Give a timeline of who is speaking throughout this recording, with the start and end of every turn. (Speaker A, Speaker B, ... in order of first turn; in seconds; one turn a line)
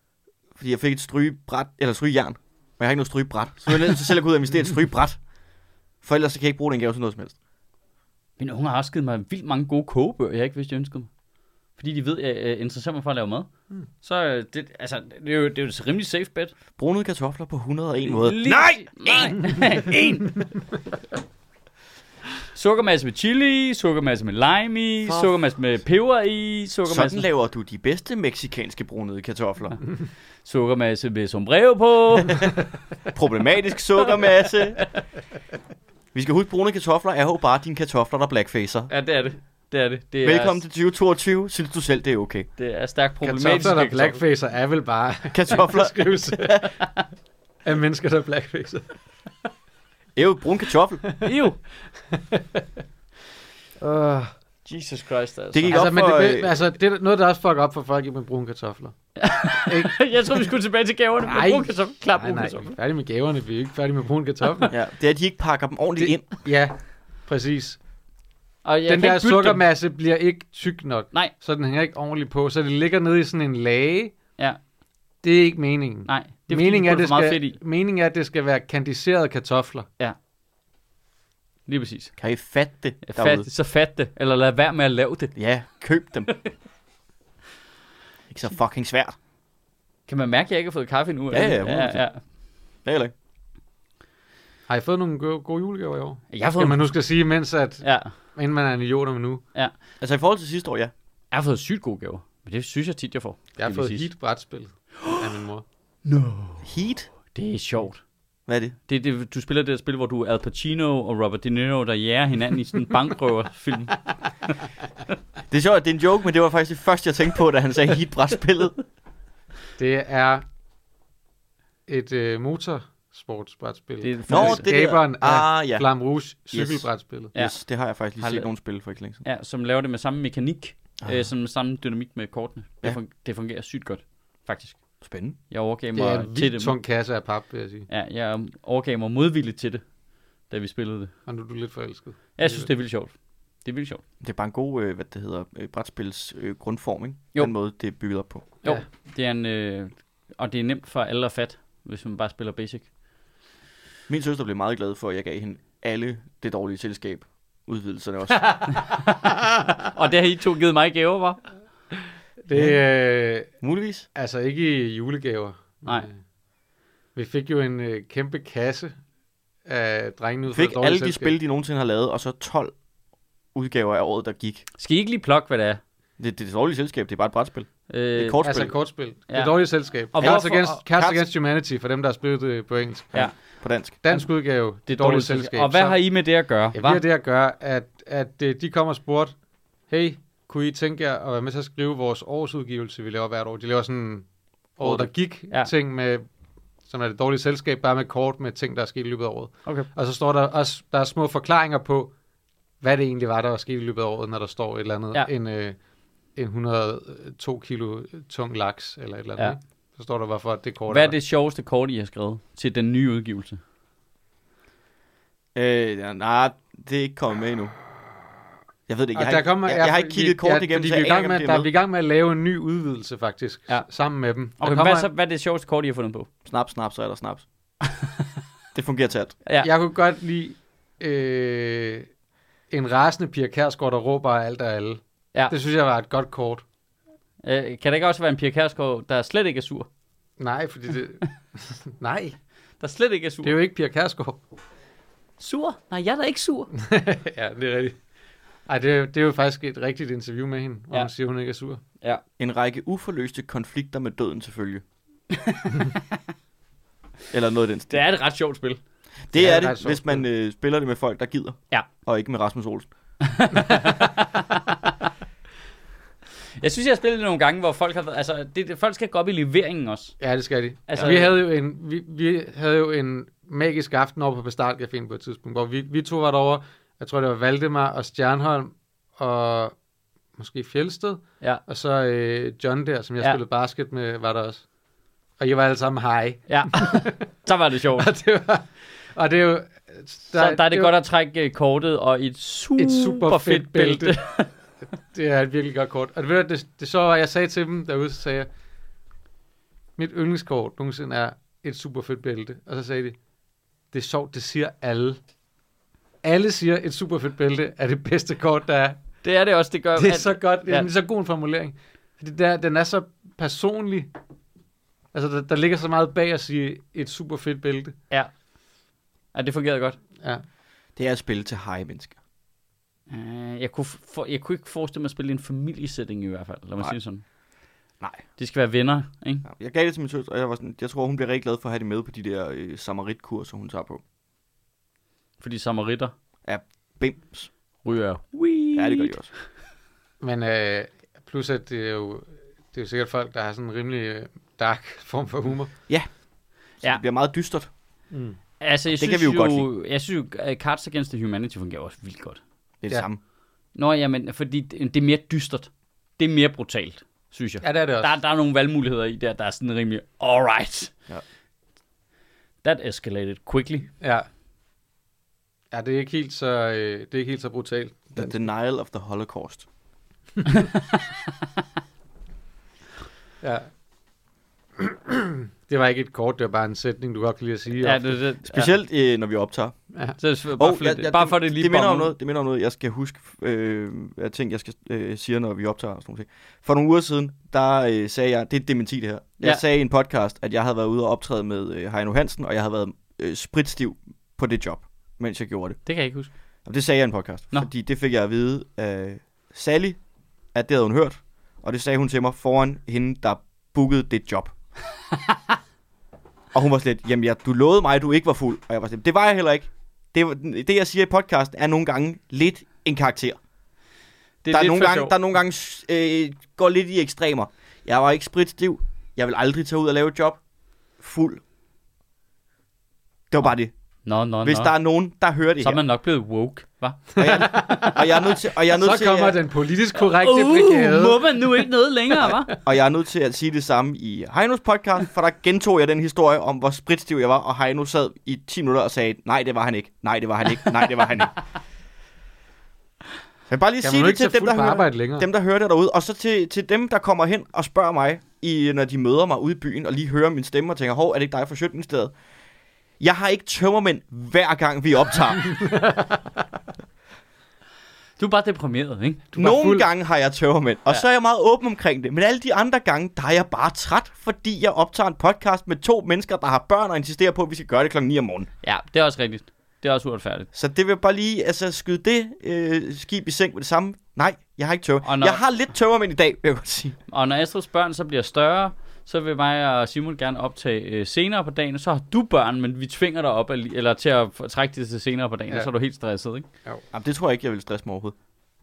Speaker A: 0.6-5.2
Speaker A: 6.0-7.3
Speaker B: 8.4-11.1
Speaker B: 11.8-13.5
Speaker B: 14.0-16.5
Speaker A: 16.8-19.9
Speaker B: 18.1-20.4
Speaker B: 22.5-27.3
Speaker A: 25.1-25.3
Speaker A: 26.9-29.8
Speaker B: 30.4-32.5
Speaker A: 33.1-35.0
Speaker A: 36.1-38.9
Speaker B: 38.9-40.6
Speaker A: 40.2-42.5
Speaker B: 42.6-44.2
Speaker C: 43.2-46.8
Speaker A: 45.3-46.6
Speaker C: 47.6-48.9
Speaker A: 50.1-51.1
Speaker B: 51.2-51.6
Speaker C: 52.1-52.6
Speaker C: 53.8-54.3
Speaker B: 54.6-55.9
Speaker A: 55.5-56.5
Speaker C: 55.7-59.0
Speaker B: 59.2-62.7
Speaker C: 59.5-60.5
Speaker C: 61.2-64.7
Speaker A: 64.7-66.3
Speaker C: 66.0-67.8
Speaker B: 68.6-69.6
Speaker C: 68.9-74.2
Speaker C: 75.2-79.9
Speaker B: 76.0-77.6
Speaker B: 81.7-82.1
Speaker A: 82.2-83.5
Speaker B: 83.0-85.3
Speaker A: 85.4-86.4
Speaker A: 88.3-89.2
Speaker B: 90.1-92.2
Speaker A: 91.3-92.1
Speaker A: 92.8-93.1
Speaker C: 94.7-99.4
Speaker B: 96.3-96.9
Speaker B: 97.8-98.1
Speaker A: 100.0-100.9
Speaker B: 101.3-104.1
Speaker C: 103.6-105.6
Speaker B: 106.0-106.7
Speaker A: 106.6-107.1
Speaker B: 107.3-108.0
Speaker A: 108.5-108.8
Speaker B: 108.9-114.1
Speaker A: 115.5-118.8
Speaker C: 119.8-120.5
Speaker C: 121.9-127.3
Speaker B: 124.0-124.7
Speaker A: 124.3-125.9
Speaker A: 126.5-129.2
Speaker B: 128.2-128.5
Speaker B: 129.2-134.8
Speaker A: 131.0-131.3
Speaker A: 135.0-135.4
Speaker B: 135.5-136.8
Speaker C: 135.9-137.9
Speaker B: 137.9-139.8
Speaker B: 140.5-141.1
Speaker C: 141.3-142.7
Speaker B: 142.4-144.0
Speaker A: 144.2-148.5
Speaker B: 148.6-152.9
Speaker A: 154.1-158.6
Speaker B: 159.9-161.4
Speaker C: 162.5-163.5
Speaker A: 162.5-162.8
Speaker A: 163.6-164.1
Speaker C: 164.2-166.2
Speaker C: 167.2-168.9
Speaker C: 169.7-171.3
Speaker A: 170.5-172.7
Speaker A: 173.5-174.7
Speaker B: 174.8-175.8
Speaker A: 176.2-178.7
Speaker B: 177.9-178.4
Speaker C: 178.4-186.0
Speaker B: 179.3-180.7
Speaker A: 180.2-181.2
Speaker A: 183.1-183.9
Speaker B: 184.0-184.3
Speaker B: 184.9-187.0
Speaker C: 186.7-189.4
Speaker C: 189.9-194.3
Speaker C: 194.8-196.2
Speaker B: 194.8-195.7
Speaker C: 196.9-202.1
Speaker C: 202.8-205.8
Speaker C: 206.4-211.2
Speaker B: 210.9-213.6
Speaker A: 215.6-217.7
Speaker A: 218.9-221.7
Speaker C: 219.2-225.1
Speaker B: 224.6-226.3
Speaker A: 226.4-227.5
Speaker B: 227.8-228.2
Speaker A: 228.7-229.4
Speaker C: 229.6-232.1
Speaker C: 232.7-236.6
Speaker B: 237.4-239.9
Speaker C: 240.4-242.4
Speaker B: 242.8-243.6
Speaker C: 243.4-244.4
Speaker B: 245.4-246.7
Speaker C: 246.8-248.0
Speaker C: 248.7-251.8
Speaker A: 252.4-254.8
Speaker B: 255.3-256.0
Speaker A: 257.3-258.0
Speaker B: 257.9-258.8
Speaker A: 259.3-262.9
Speaker C: 259.3-260.2
Speaker B: 263.2-264.7
Speaker B: 266.6-270.2
Speaker C: 270.2-279.7
Speaker B: 270.9-271.3
Speaker C: 280.4-284.6
Speaker C: 285.4-287.2
Speaker B: 286.5-288.1
Speaker C: 288.0-290.9
Speaker B: 290.3-294.5
Speaker C: 292.8-294.2
Speaker C: 295.1-298.5
Speaker C: 300.0-303.2
Speaker C: 303.9-305.2
Speaker C: 306.2-309.0
Speaker B: 309.2-310.9
Speaker C: 310.0-314.1
Speaker C: 315.1-318.0
Speaker B: 319.3-320.0
Speaker A: 321.0-322.2
Speaker B: 323.1-327.2
Speaker B: 328.4-329.4
Speaker A: 329.4-334.0
Speaker B: 335.4-336.1
Speaker A: 336.5-337.5
Speaker B: 337.8-339.2
Speaker A: 338.8-339.3
Speaker C: 340.2-345.7
Speaker A: 346.8-347.7
Speaker C: 348.1-348.4
Speaker B: 348.6-352.4
Speaker A: 348.9-349.7
Speaker A: 352.8-353.2
Speaker B: 353.8-360.9
Speaker C: 357.6-358.1
Speaker B: 362.6-363.9
Speaker C: 364.0-364.3
Speaker C: 365.7-368.4
Speaker A: 368.1-369.7
Speaker B: 370.5-371.2
Speaker C: 373.4-373.7
Speaker C: 374.8-378.2
Speaker B: 377.8-378.7
Speaker A: 378.4-379.8
Speaker B: 380.2-382.1
Speaker A: 380.6-395.8
Speaker B: 395.9-396.3
Speaker A: 396.6-400.0
Speaker A: 400.5-404.5
Speaker A: 406.5-413.4
Speaker B: 414.4-415.1
Speaker A: 414.5-420.4
Speaker A: 421.0-421.4
Speaker A: 423.3-423.7
Speaker B: 424.1-424.7
Speaker A: 424.4-425.8
Speaker B: 425.6-427.9
Speaker C: 427.2-431.7
Speaker A: 427.2-429.4
Speaker B: 430.1-432.5
Speaker A: 432.5-441.4
Speaker A: 443.5-452.1
Speaker C: 443.8-445.3
Speaker A: 453.0-455.8
Speaker B: 458.2-459.3
Speaker C: 459.3-459.9
Speaker A: 459.4-468.5
Speaker B: 468.6-470.5
Speaker A: 470.5-477.0
Speaker B: 475.0-475.4
Speaker B: 477.1-486.5
Speaker A: 486.9-488.1